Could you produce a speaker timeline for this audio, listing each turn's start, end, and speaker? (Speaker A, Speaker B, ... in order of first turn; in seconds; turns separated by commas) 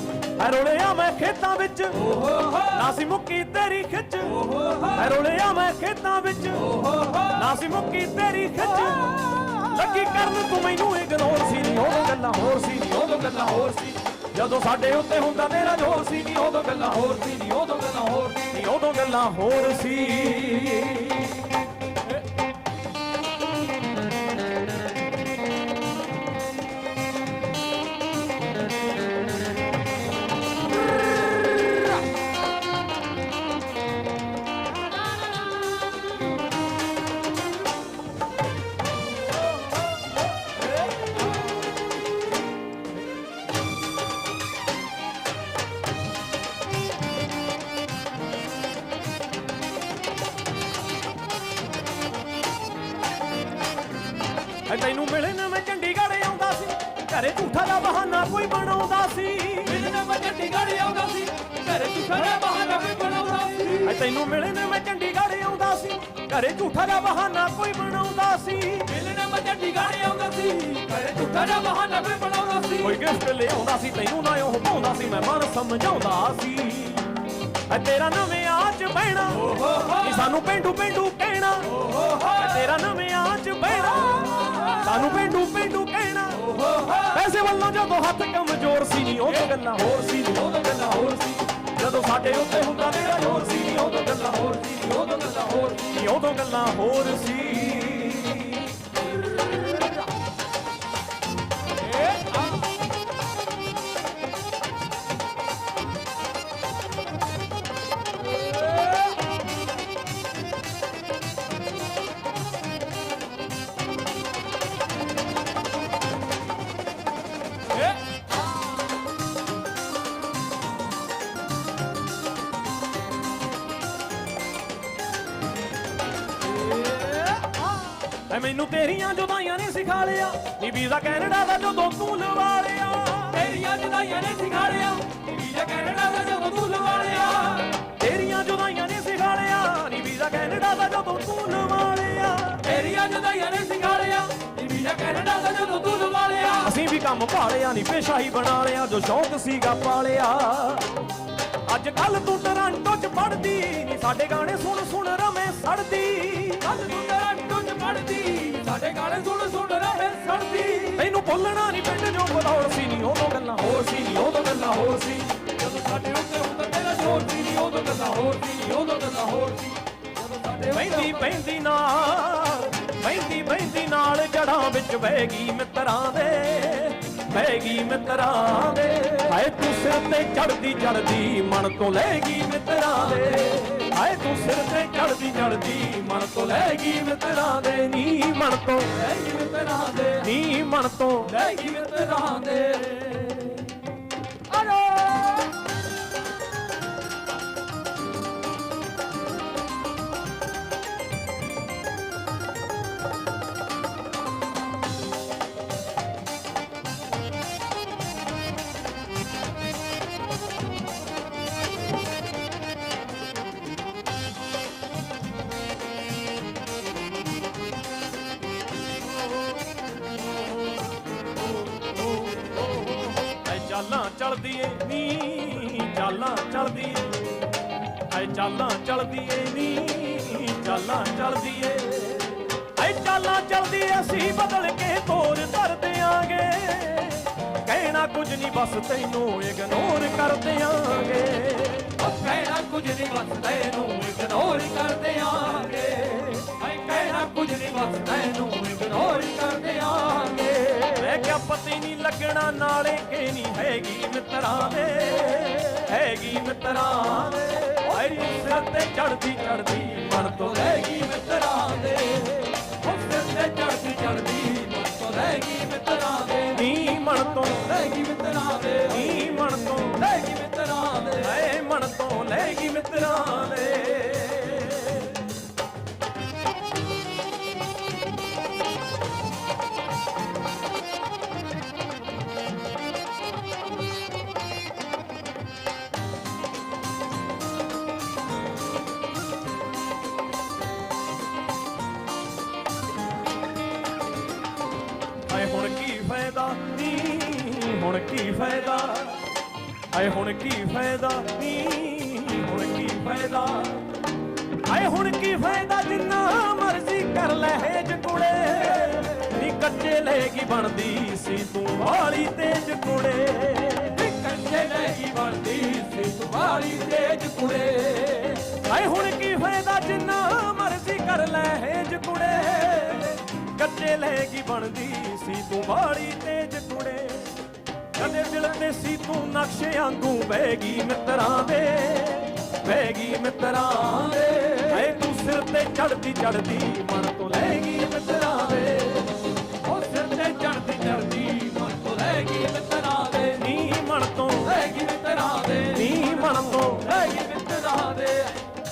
Speaker A: 0.4-2.0, Speaker B: 2.0-2.8, Speaker A: 2.7-6.7, Speaker B: 4.3-5.0, Speaker B: 6.6-7.4, Speaker A: 7.3-16.5, Speaker B: 16.1-18.6, Speaker A: 18.5-21.5, Speaker A: 54.6-59.9, Speaker B: 59.6-63.9, Speaker A: 63.8-68.9, Speaker B: 68.9-73.0, Speaker A: 72.8-77.1, Speaker A: 77.7-90.7, Speaker B: 79.4-80.1, Speaker B: 81.7-82.5, Speaker B: 86.4-87.1, Speaker B: 90.4-91.5, Speaker A: 91.6-94.5, Speaker B: 94.2-96.0, Speaker A: 95.8-98.8, Speaker A: 128.3-133.5, Speaker B: 133.3-137.7, Speaker A: 137.7-142.7, Speaker B: 142.6-146.7, Speaker A: 146.6-150.9, Speaker A: 151.7-156.7, Speaker B: 156.6-161.0, Speaker A: 160.9-164.7, Speaker B: 164.3-171.3, Speaker A: 170.7-189.0, Speaker B: 188.9-190.3, Speaker A: 190.2-191.3, Speaker B: 191.3-193.8, Speaker B: 194.5-195.3, Speaker A: 223.3-227.2, Speaker A: 228.1-242.0, Speaker B: 241.9-251.1, Speaker A: 250.9-260.7, Speaker B: 260.3-266.6, Speaker A: 266.5-267.8, Speaker B: 267.6-269.2, Speaker A: 268.9-270.1, Speaker B: 269.9-271.3, Speaker A: 271.1-275.3, Speaker A: 295.3-299.3, Speaker A: 299.9-303.9, Speaker A: 304.6-314.1, Speaker B: 313.9-318.5, Speaker A: 318.5-327.4, Speaker A: 327.9-339.2, Speaker B: 334.2-334.8, Speaker B: 339.6-343.4, Speaker A: 343.3-344.6, Speaker B: 344.4-348.4, Speaker A: 345.7-347.0